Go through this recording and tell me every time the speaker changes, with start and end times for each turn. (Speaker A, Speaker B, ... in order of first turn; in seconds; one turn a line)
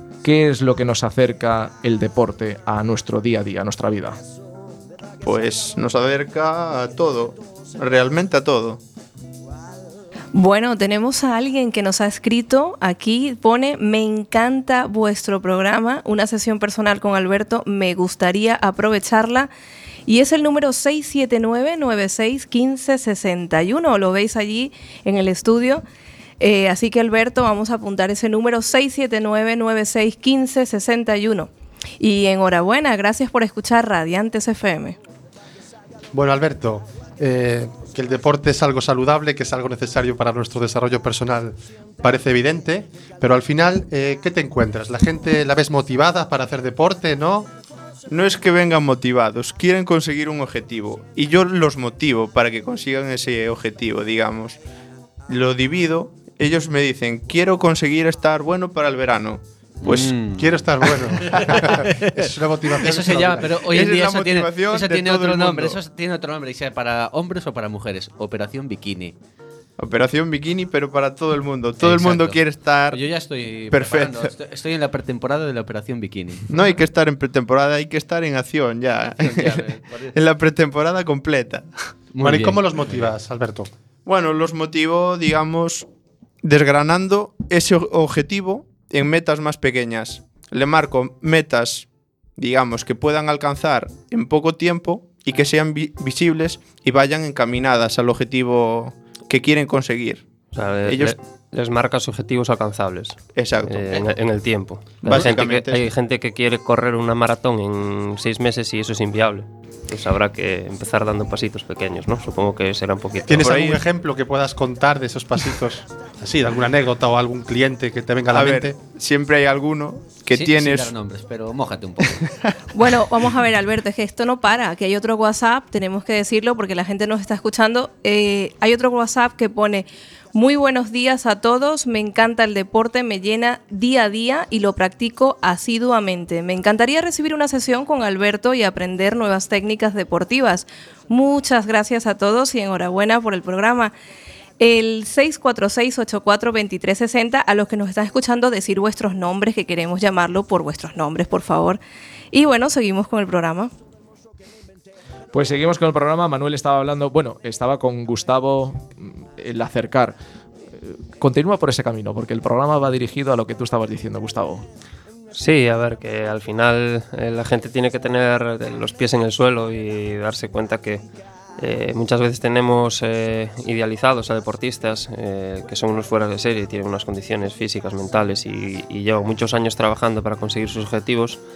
Speaker A: 0.2-4.2
Speaker B: 5.2-8.8
Speaker C: 10.3-19.5
Speaker C: 20.1-25.8
Speaker C: 26.4-35.0
Speaker D: 36.1-47.5
Speaker B: 48.1-54.6
Speaker B: 55.3-60.2
Speaker E: 59.8-69.2
Speaker D: 60.4-63.6
Speaker B: 61.3-61.8
Speaker B: 63.4-65.8
Speaker B: 69.8-73.0
Speaker E: 71.8-72.4
Speaker E: 72.9-76.5
Speaker B: 73.7-74.3
Speaker B: 76.5-81.9
Speaker E: 79.2-80.2
Speaker E: 82.1-83.0
Speaker D: 82.2-83.7
Speaker B: 84.1-85.9
Speaker B: 86.4-100.3
Speaker F: 100.5-113.7
Speaker B: 100.9-101.2
Speaker B: 103.4-104.1
Speaker B: 105.0-105.9
Speaker D: 113.3-118.8
Speaker B: 113.4-113.8
Speaker B: 118.3-120.9
Speaker E: 120.3-122.3
Speaker C: 122.7-143.9
Speaker C: 144.6-151.8
Speaker C: 152.3-153.7
Speaker A: 155.3-160.2
Speaker A: 160.8-164.7
Speaker F: 165.3-171.0
Speaker F: 171.6-181.4